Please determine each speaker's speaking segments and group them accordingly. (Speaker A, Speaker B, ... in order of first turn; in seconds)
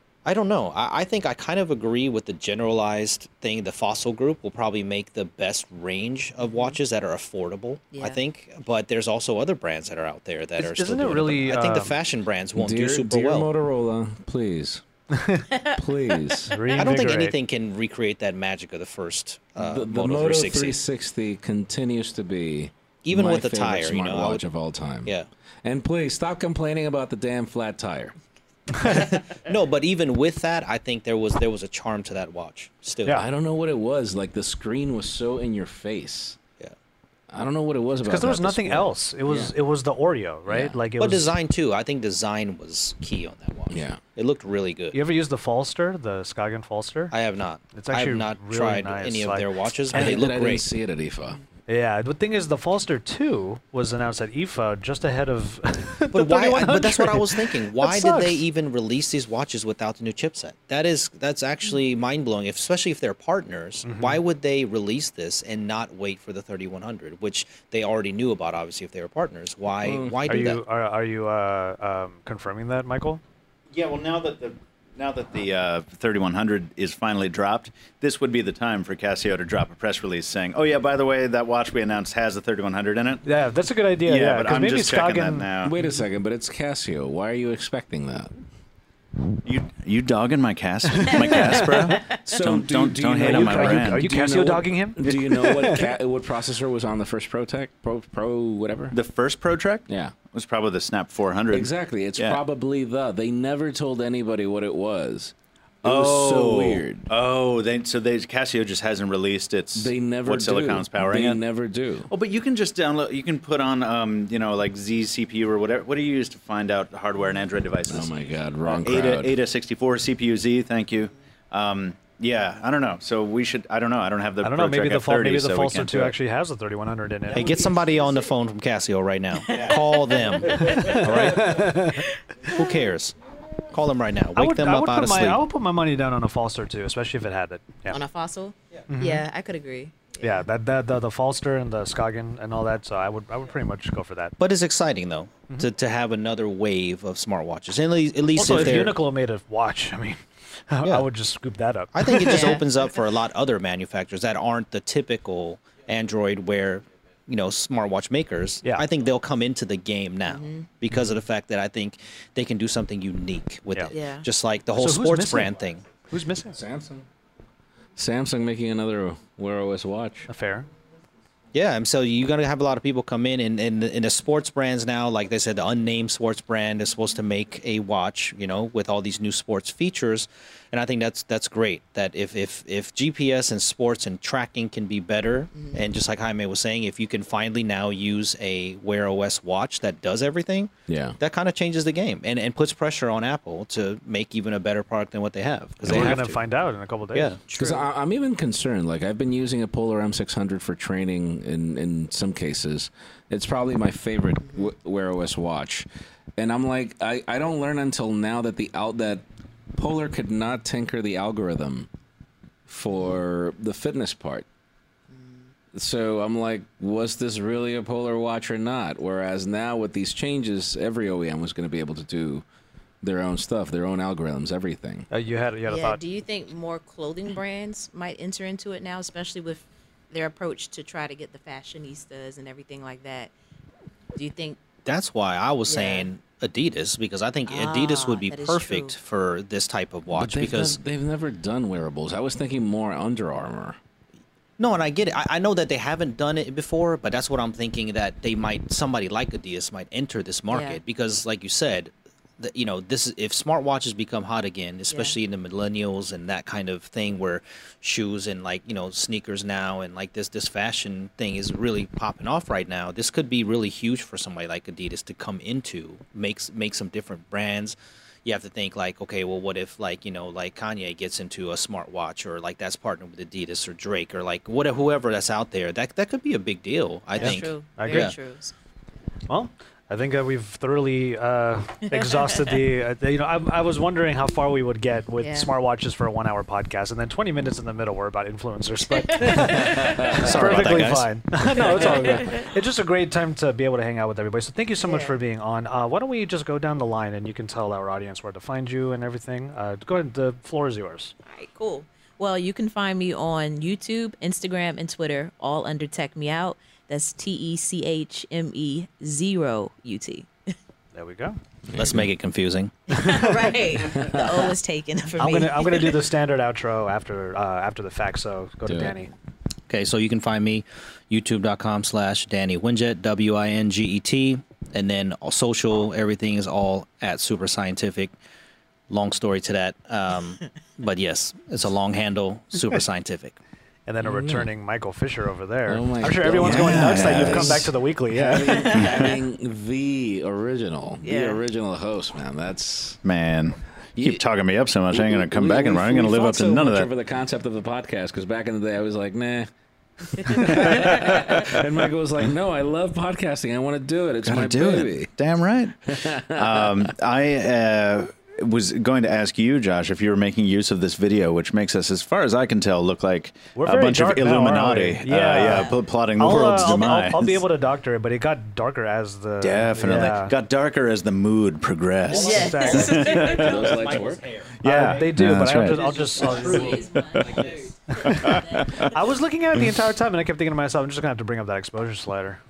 Speaker A: 0.2-13.5, 16.8-20.8, 23.1-24.4, 28.8-33.2, 41.0-45.0, 47.1-50.6, 56.1-70.6, 127.3-131.7, 132.5-133.2, 133.7-135.4, 144.4-149.0, 151.9-166.0, 171.5-196.5, 197.1-197.9, 234.8-240.8, 244.6-278.1, 311.8-312.9, 319.7-328.1, 328.9-333.4, 372.1-375.1, 375.7-377.7
Speaker B: 6.4-6.8, 7.9-8.2, 15.5-15.8, 16.6-16.9, 127.5-128.2, 129.4-131.0, 137.9-140.4, 152.3-152.6, 160.3-160.7, 163.9-164.3, 185.5-185.9, 204.4-204.7, 212.9-213.2, 215.1-215.5, 225.7-233.3, 234.2-234.6, 235.7-236.1, 237.5-239.0, 250.5-250.8, 254.9-255.2, 277.1-278.5, 285.2-285.5, 288.9-289.8, 291.6-292.5, 294.8-295.2, 301.2-310.5, 312.9-316.0, 338.5-339.2, 341.0-341.4, 350.4-351.1, 372.1-373.6, 376.0-378.9
Speaker C: 10.6-12.0, 15.1-15.4, 16.5-17.4, 28.8-29.1, 38.0-41.3, 44.9-47.1, 47.7-50.3, 51.7-58.5, 63.8-64.2, 70.3-73.2, 83.2-86.0, 90.9-92.0, 93.2-95.9, 124.4-127.7, 130.5-132.7, 134.4-138.0, 138.9-139.3, 140.2-144.3, 148.3-152.7, 164.8-165.5, 166.1-166.6, 170.3-170.7, 195.8-197.4, 225.1-226.0, 277.2-278.1, 279.3-301.1, 310.9-311.4, 313.0-313.6, 315.2-319.1, 333.9-338.8, 363.6-370.4, 372.2-373.1, 374.6-376.9, 377.9-382.4
Speaker D: 12.6-14.8, 15.8-16.6, 19.6-28.2, 33.1-36.4, 37.3-39.5, 40.5-40.8, 43.7-44.0, 49.9-51.4, 69.8-70.2, 85.6-88.3, 92.2-99.0, 99.9-100.2, 101.5-107.1, 109.8-112.1, 117.9-119.4, 166.5-167.1, 168.0-170.3, 190.9-191.2, 195.9-196.2, 197.5-205.9, 206.4-211.9, 212.7-214.4, 215.7-222.4, 223.0-225.1, 240.1-243.8, 289.2-292.2, 311.7-312.1, 313.9-314.4, 318.7-318.9, 334.0-334.5, 335.7-343.0, 344.0-344.2, 344.9-349.5, 350.1-355.1, 355.9-356.9, 373.2-374.3
Speaker E: 73.7-83.3, 84.0-85.7, 89.5-94.2, 98.9-102.4, 105.8-111.4, 112.1-126.2, 336.4-337.7, 338.8-339.1, 343.0-346.9, 350.5-351.4, 354.2-367.4, 369.4-373.8, 374.6-375.9, 376.9-378.9